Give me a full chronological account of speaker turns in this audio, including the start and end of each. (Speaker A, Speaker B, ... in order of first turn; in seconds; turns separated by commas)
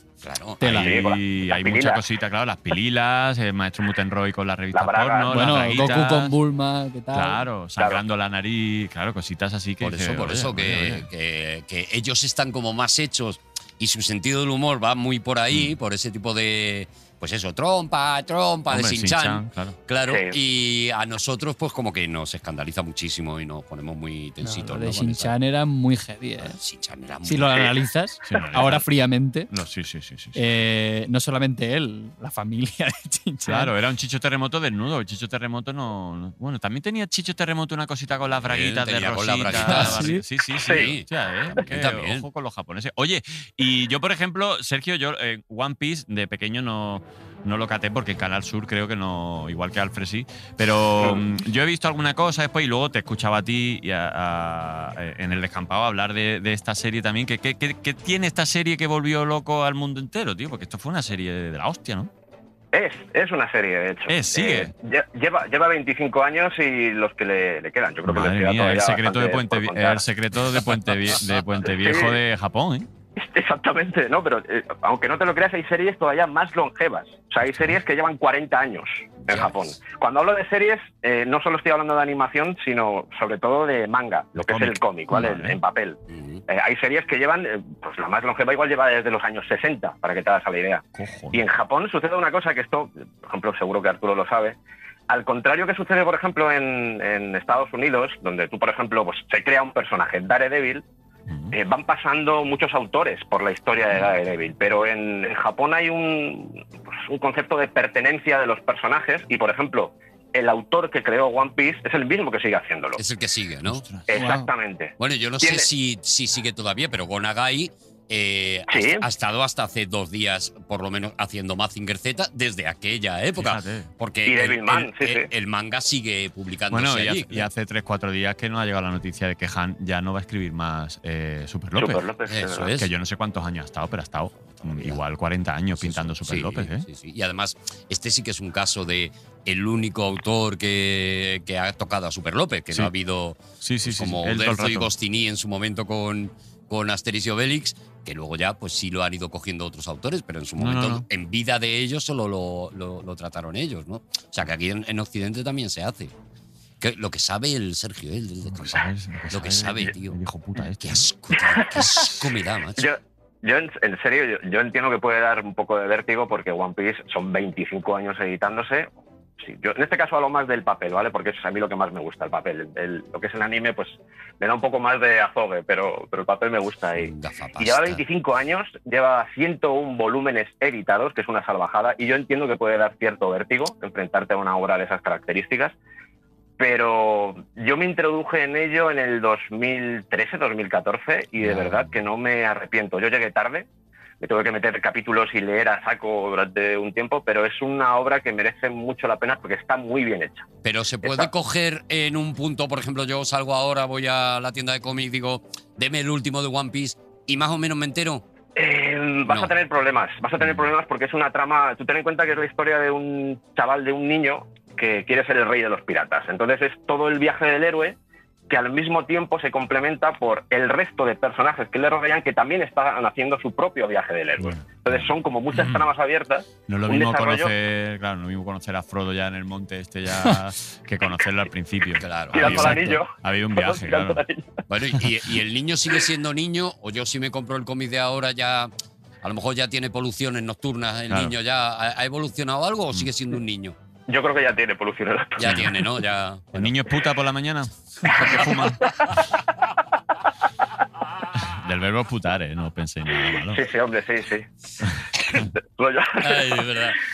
Speaker A: 0.2-0.8, Speaker B: 0.6-0.9, Speaker C: 0.6-6.4, Speaker D: 0.8-2.0, Speaker D: 4.7-5.3, Speaker B: 5.3-7.5, Speaker C: 7.1-11.1, Speaker A: 9.8-25.3, Speaker C: 18.7-19.8, Speaker D: 20.1-20.4, Speaker B: 24.4-26.6, Speaker A: 26.4-27.7, Speaker B: 27.2-29.5, Speaker C: 28.3-28.8, Speaker C: 29.5-30.4, Speaker B: 30.4-33.7, Speaker C: 33.5-62.1, Speaker A: 38.4-42.2, Speaker B: 39.6-40.2, Speaker D: 40.6-40.9, Speaker D: 62.7-70.0, Speaker C: 64.1-64.7, Speaker C: 68.0-72.9, Speaker D: 71.7-72.2, Speaker D: 73.2-94.6, Speaker C: 84.4-85.6, Speaker A: 86.1-86.4, Speaker C: 91.0-91.4, Speaker D: 95.1-100.8, Speaker C: 101.3-101.5, Speaker D: 101.5-113.0, Speaker A: 113.0-113.9, Speaker C: 113.7-114.1, Speaker D: 114.1-115.7, Speaker B: 114.1-114.5, Speaker A: 115.0-127.5, Speaker D: 118.7-119.0, Speaker C: 123.4-123.9, Speaker D: 124.2-125.3, Speaker C: 126.7-132.0, Speaker D: 131.8-132.7, Speaker A: 132.3-132.9, Speaker C: 132.7-136.9, Speaker A: 134.6-135.0, Speaker A: 135.8-156.1, Speaker C: 143.6-144.9, Speaker C: 150.6-151.1, Speaker A: 156.8-160.2, Speaker C: 158.5-161.1, Speaker A: 160.8-162.9, Speaker D: 162.8-185.8, Speaker A: 176.9-178.0, Speaker D: 186.6-193.7, Speaker A: 191.4-191.9, Speaker D: 194.2-200.5, Speaker A: 200.6-208.2, Speaker D: 201.0-201.3, Speaker D: 208.6-218.0, Speaker A: 209.3-209.5, Speaker D: 218.5-227.5, Speaker C: 224.4-225.9, Speaker C: 226.7-234.2, Speaker A: 232.0-232.9, Speaker D: 232.3-234.4, Speaker A: 234.7-238.7, Speaker A: 239.2-243.8, Speaker D: 244.1-245.7, Speaker A: 245.4-246.8, Speaker C: 245.4-245.8, Speaker C: 246.5-249.2, Speaker C: 251.3-253.6, Speaker D: 253.3-254.4, Speaker C: 254.8-255.4, Speaker D: 255.3-256.9, Speaker A: 256.2-257.0